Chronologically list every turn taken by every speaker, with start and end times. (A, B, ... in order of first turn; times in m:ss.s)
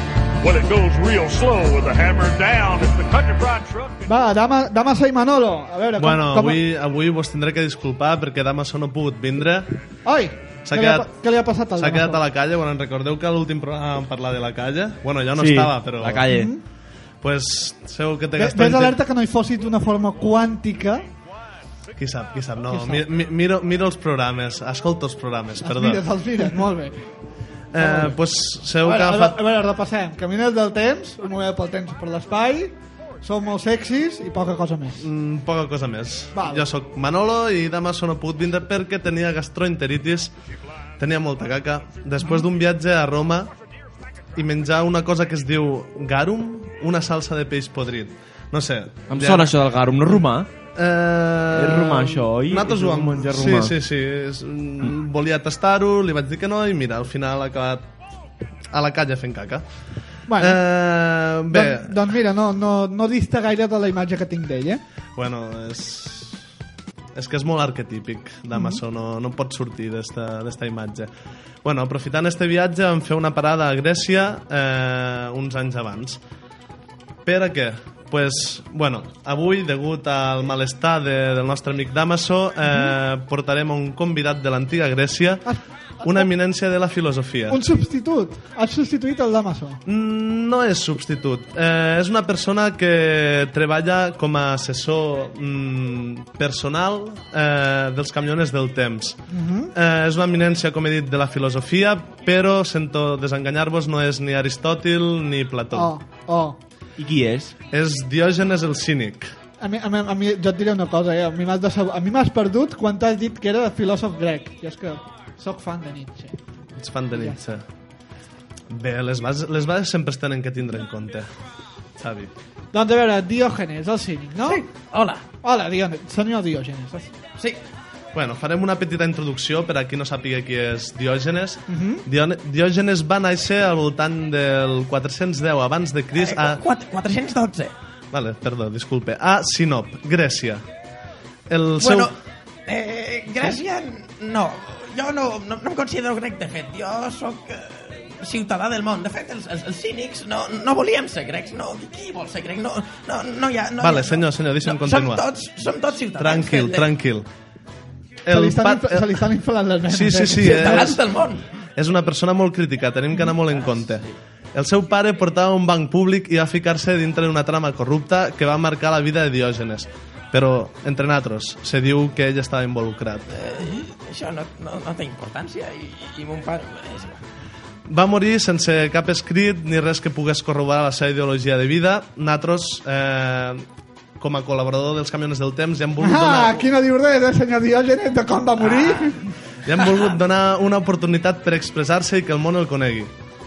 0:00.4-0:04.1 A
0:04.1-0:06.6 B
0:06.0-0:09.8 C
0:10.0-0:12.2 B
0:10.6-0:11.1 C
0:11.7-0:16.3 C
0:15.4-0:16.5 D
0:16.3-0:16.6 B
0:17.2-0:19.0 C
0:18.3-0:21.0 B
0:22.0-0:26.6 C
0:22.7-0:23.0 B
0:23.0-0:23.3 A
0:25.6-0:27.0 B
0:27.7-0:29.4 C
0:27.8-0:28.2 B
0:28.8-0:35.1 B
0:35.0-0:40.3 C
0:36.3-0:36.7 B
0:41.0-0:43.5 C
0:44.4-0:49.6 C
0:49.1-0:50.5 D
0:50.7-0:57.8 C
0:51.5-0:53.7 D
0:58.7-0:59.6 C
1:00.3-1:00.6 B
1:00.4-1:02.0 C
1:01.5-1:04.8 B
1:05.2-1:06.4 C
1:07.2-1:11.1 C
1:08.5-1:08.8 B
1:11.6-1:16.2 C
1:17.3-1:25.5 C
1:22.7-1:23.0 B
1:25.4-1:26.3 B
1:26.0-1:27.6 C
1:27.5-1:29.8 B
1:29.9-1:39.2 C
1:39.3-1:39.7 B
1:39.7-1:45.9 C
1:45.7-1:46.6 B
1:47.0-1:47.5 D
1:47.7-1:49.3 C
1:49.6-1:56.4 B
1:56.8-1:57.6 C
1:57.1-1:57.4 B
1:58.7-2:01.3 C
2:02.0-2:02.3 C
2:02.7-2:04.6 B
2:04.4-2:05.2 E
2:05.4-2:07.1 B
2:08.1-2:16.6 C
2:11.7-2:12.1 B
2:16.1-2:17.7 E
2:18.1-2:20.6 C
2:21.5-2:22.1 C
2:21.8-2:22.2 E
2:22.7-2:36.9 E
2:33.8-2:35.2 C
2:36.2-2:37.3 C
2:38.2-2:39.2 C
2:38.3-2:41.0 B
2:39.9-2:41.0 C
2:40.3-2:41.4 E
2:41.8-2:53.3 C
2:43.5-2:44.2 E
2:53.3-2:57.2 E
2:57.9-3:03.6 C
3:04.2-3:06.7 C
3:06.0-3:09.3 B
3:08.6-3:09.2 E
3:09.6-3:13.1 C
3:09.8-3:10.1 E